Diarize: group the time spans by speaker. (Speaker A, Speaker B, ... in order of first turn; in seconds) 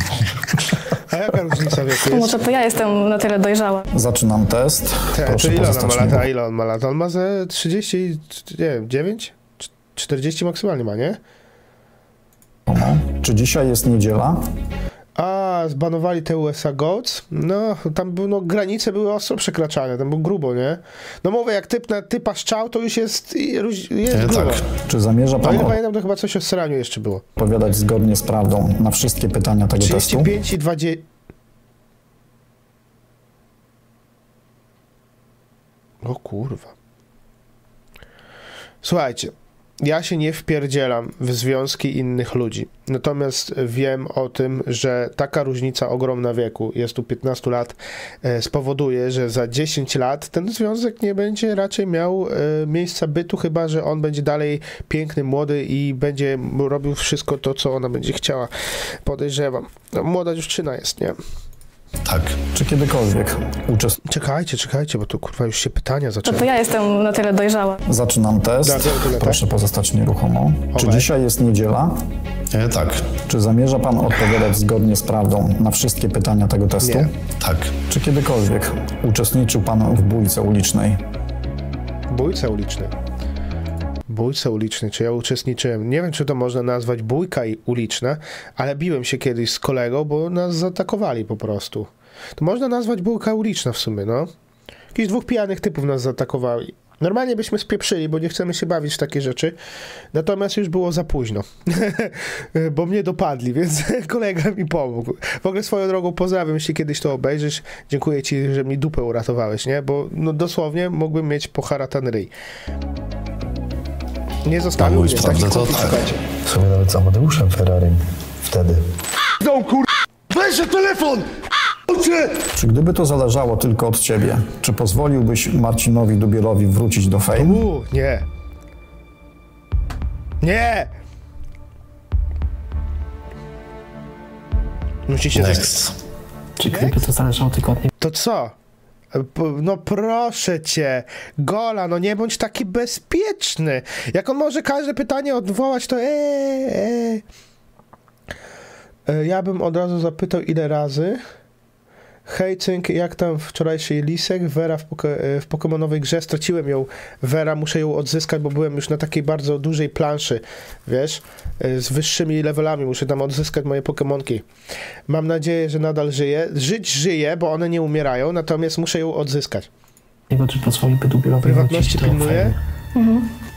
Speaker A: 0.9-2.4, 5.1-11.2, 15.2-24.6, 25.4-27.2, 29.8-31.0, 36.0-36.7, 38.8-58.5, 59.0-61.2, 64.0-66.5, 68.6-69.4, 70.7-71.1, 76.8-77.1, 82.1-82.9, 84.1-94.3, 94.9-99.5, 100.1-112.3, 114.5-116.2, 127.3-128.2, 130.4-130.9, 135.1-135.7, 136.6-136.9, 138.0-138.5, 139.1-147.2, 149.1-151.2, 152.2-164.4, 165.1-169.7, 171.4-172.5
Speaker B: 2.0-3.8, 66.2-67.8, 172.9-173.2
Speaker C: 3.9-6.2, 12.7-14.5, 24.8-25.8, 27.4-30.3, 62.5-64.0, 67.8-72.0, 73.2-77.1, 77.9-81.0, 122.5-127.6
Speaker D: 24.1-24.6, 62.0-62.4, 72.5-73.1, 77.4-77.7, 114.8-116.0, 135.3-135.9
Speaker E: 116.5-118.8
Speaker F: 136.6-137.9, 170.3-172.6